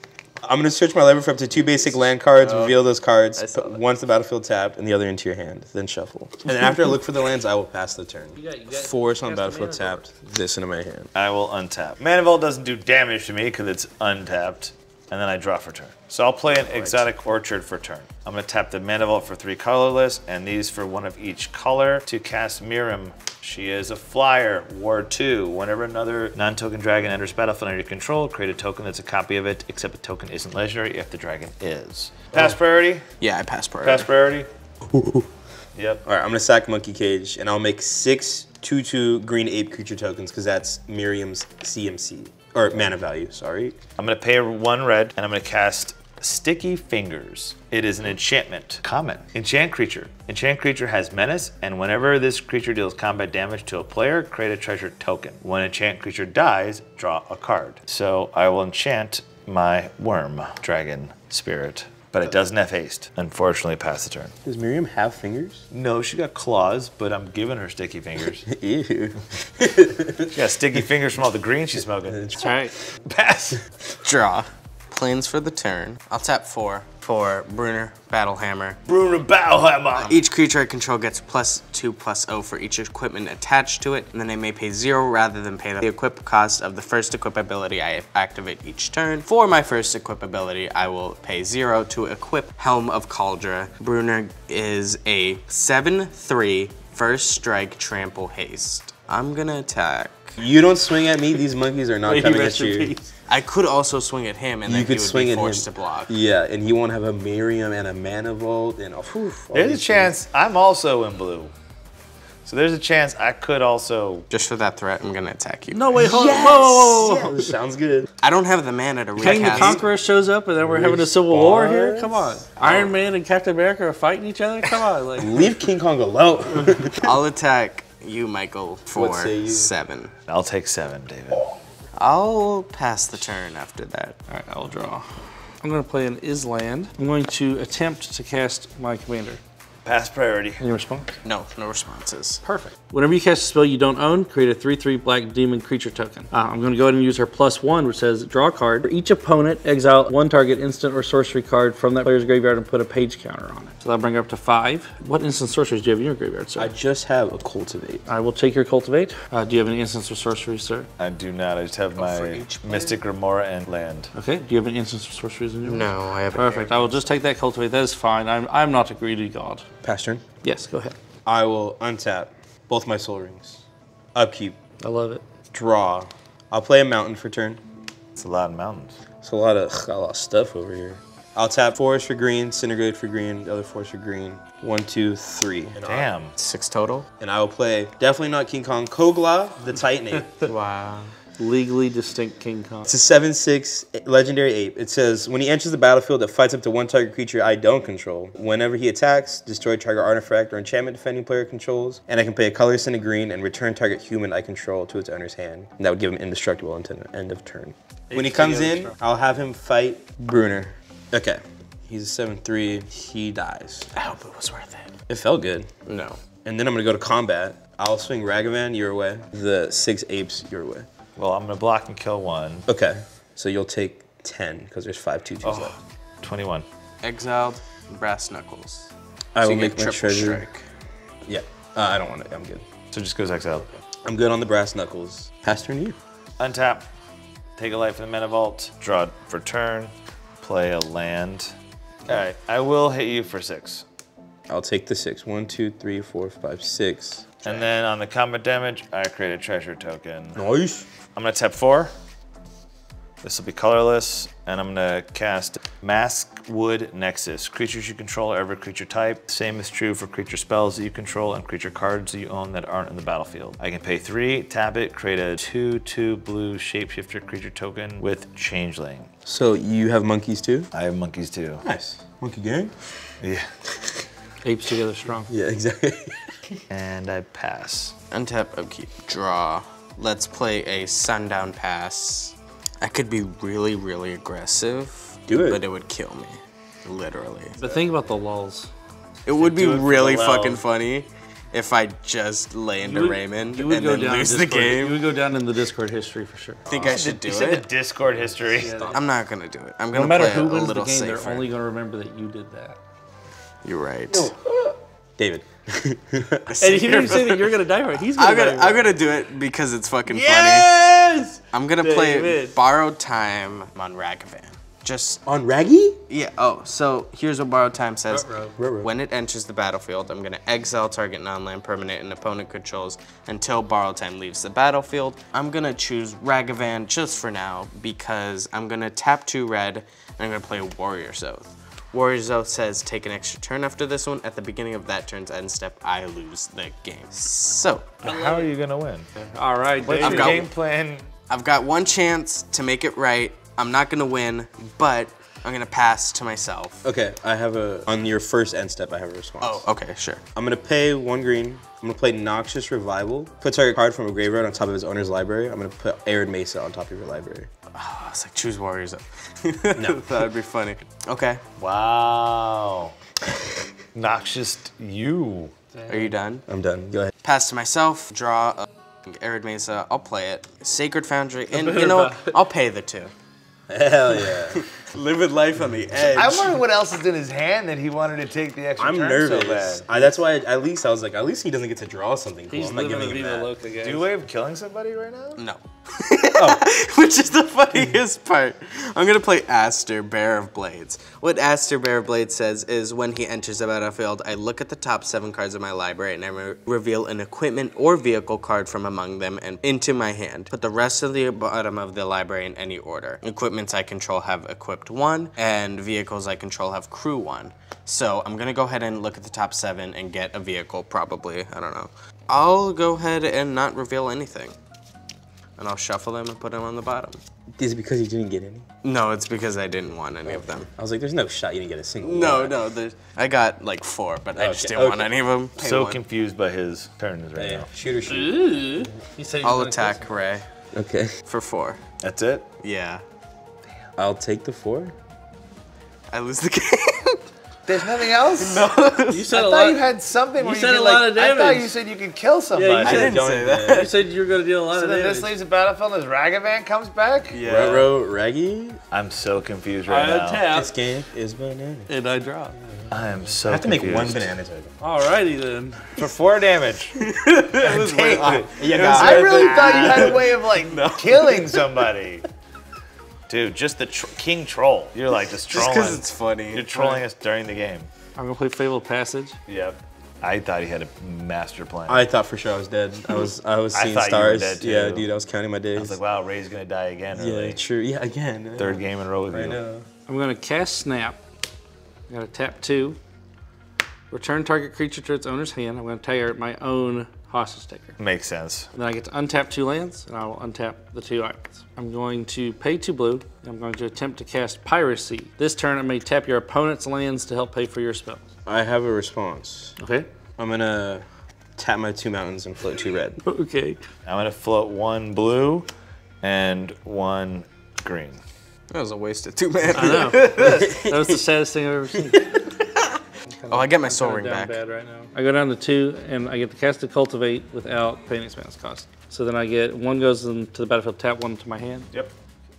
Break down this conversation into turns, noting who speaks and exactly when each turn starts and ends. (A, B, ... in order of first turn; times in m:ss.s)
0:00.4-0:11.1 A
0:02.4-0:02.8 B
0:03.4-0:03.8 B
0:08.4-0:10.0 C
0:11.1-0:33.0 D
0:16.6-0:17.0 A
0:33.2-0:34.1 B
0:33.8-0:34.5 D
0:34.8-0:35.3 A
0:35.8-0:36.0 D
0:36.0-0:43.8 A
0:44.0-1:04.3 D
1:04.4-1:05.6 A
1:05.7-1:08.5 D
1:08.4-1:10.3 A
1:10.3-1:12.4 D
1:12.4-1:12.7 C
1:13.0-1:13.6 D
1:14.0-1:18.8 B
1:18.9-1:20.2 D
1:20.0-1:40.4 B
1:40.4-1:42.9 A
1:42.0-1:43.1 C
1:43.3-1:46.1 B
1:44.6-1:50.1 A
1:49.5-1:51.5 D
1:52.4-1:54.2 D
1:54.3-1:56.0 B
1:55.7-1:57.3 C
1:56.0-1:58.1 A
1:58.2-1:59.8 B
1:59.2-2:05.4 C
1:59.3-1:59.8 A
2:00.6-2:02.4 A
2:02.6-2:02.9 B
2:05.2-2:07.1 A
2:07.0-2:10.1 B
2:08.9-2:09.7 A
2:10.3-2:11.5 D
2:11.9-2:14.2 B
2:14.3-2:15.1 C
2:15.6-2:19.4 C
2:19.8-2:20.6 D
2:20.6-2:21.2 C
2:21.2-2:22.4 B
2:22.4-2:36.7 C
2:36.6-2:38.0 A
2:38.1-2:40.9 C
2:41.0-2:44.1 D
2:42.0-2:43.0 B
2:44.1-2:49.7 C
2:45.6-2:46.9 B
2:49.8-2:50.2 A
2:50.4-2:51.0 C
2:51.2-2:53.6 A
2:54.1-2:54.6 A
2:54.8-2:55.2 C
2:55.5-2:57.6 A
2:58.2-2:59.0 D
2:59.2-3:06.1 A
3:05.8-3:06.3 D
3:06.4-3:07.1 B
3:07.2-3:10.5 A
3:10.4-3:11.1 B
3:11.4-3:12.9 C
3:12.8-3:33.9 A
3:28.1-3:29.0 C
3:33.9-3:35.0 B
3:35.1-3:35.7 A
3:35.8-3:36.2 B
3:36.4-3:40.9 A
3:41.2-3:42.6 D
3:42.7-3:45.7 A
3:45.4-3:46.6 D
3:47.0-3:50.6 B
3:49.3-3:50.5 A
3:51.2-3:52.6 A
3:52.9-3:53.7 D
3:54.0-3:56.0 A
3:56.4-3:56.9 D
3:57.6-4:01.5 D
4:02.1-4:03.8 D
4:04.5-4:07.5 A
4:07.4-4:10.4 D
4:10.3-4:10.9 A
4:11.1-4:11.9 D
4:13.2-4:29.1 D
4:29.2-4:30.7 A
4:30.7-4:31.6 D
4:31.6-4:32.8 A
4:33.2-4:33.5 D
4:34.4-4:35.3 C
4:35.3-4:36.2 A
4:36.7-4:37.9 D
4:38.1-4:47.7 B
4:45.3-4:45.6 A
4:47.6-4:48.7 C
4:49.2-4:55.1 B
4:49.4-4:50.6 D
4:52.8-4:56.7 C
4:56.7-4:57.7 B
4:56.7-4:58.9 D
4:58.5-4:59.0 C
4:58.8-5:01.5 B
4:59.9-5:02.8 C
5:03.6-5:04.3 B
5:04.1-5:06.5 A
5:06.5-5:07.6 B
5:06.6-5:09.0 C
5:08.1-5:10.7 B
5:10.1-5:12.6 C
5:11.5-5:15.2 B
5:15.2-5:16.0 A
5:16.1-5:38.0 B
5:18.1-5:18.5 C
5:18.6-5:18.9 A
5:38.0-5:39.1 D
5:38.0-5:38.5 C
5:39.3-5:40.5 C
5:39.8-5:41.1 D
5:39.9-5:40.5 B
5:41.3-5:46.8 B
5:46.8-5:49.6 A
5:49.4-5:50.2 B
5:50.4-5:57.5 A
5:57.7-6:01.4 B
5:59.7-6:00.1 A
6:01.6-6:02.9 D
6:03.9-6:05.5 D
6:05.7-6:06.1 C
6:05.9-6:06.4 B
6:06.5-6:07.1 A
6:07.2-6:13.1 B
6:11.5-6:12.4 C
6:13.7-6:14.6 A
6:14.5-6:16.6 B
6:15.9-6:16.3 A
6:16.1-6:19.8 D
6:18.8-6:23.5 A
6:22.5-6:24.1 C
6:23.8-6:25.4 D
6:25.4-6:54.6 B
6:26.3-6:26.6 A
6:55.6-6:57.2 B
6:57.5-6:58.7 A
6:58.8-7:00.7 B
7:00.3-7:02.6 A
7:02.0-7:06.0 B
7:04.4-7:05.1 A
7:05.6-7:07.7 D
7:07.4-7:08.8 A
7:08.1-7:10.1 C
7:09.4-7:10.5 B
7:10.7-7:11.1 A
7:11.3-7:11.8 B
7:12.0-7:12.4 D
7:12.6-7:13.0 B
7:14.0-7:14.9 A
7:16.1-7:17.2 B
7:17.7-7:18.7 D
7:17.8-7:19.3 B
7:19.1-7:19.8 C
7:19.2-7:23.1 D
7:20.4-7:21.7 C
7:22.5-7:23.1 C
7:22.8-7:23.9 B
7:22.8-7:23.9 A
7:23.7-7:25.4 C
7:24.7-7:27.4 D
7:27.3-7:27.9 B
7:27.4-7:28.8 A
7:28.9-7:30.5 D
7:29.9-7:30.7 C
7:30.5-7:31.9 A
7:31.9-7:32.6 C
7:32.6-7:34.7 A
7:32.9-7:34.3 D
7:34.8-7:36.0 C
7:36.0-7:37.0 D
7:37.0-7:41.5 B
7:37.6-7:42.2 D
7:38.6-7:40.3 A
7:43.3-7:47.9 D
7:45.5-7:46.7 B
7:46.7-7:47.0 C
7:48.2-7:49.4 C
7:49.5-7:52.0 D
7:51.9-7:56.0 A
7:53.7-7:55.0 D
7:55.8-7:57.6 D
7:57.1-7:59.8 A
7:58.6-7:59.6 D
8:00.1-8:01.2 C
8:02.1-8:03.0 C
8:04.1-8:08.0 C
8:08.0-8:08.7 D
8:08.7-8:18.2 C
8:18.4-8:19.8 A
8:19.8-8:20.1 C
8:20.4-8:21.0 A
8:21.6-8:23.2 A
8:23.2-8:23.8 C
8:24.0-8:25.7 D
8:26.2-8:28.2 D
8:28.7-8:31.0 B
8:29.7-8:32.5 C
8:33.3-8:41.9 C
8:33.5-8:34.6 B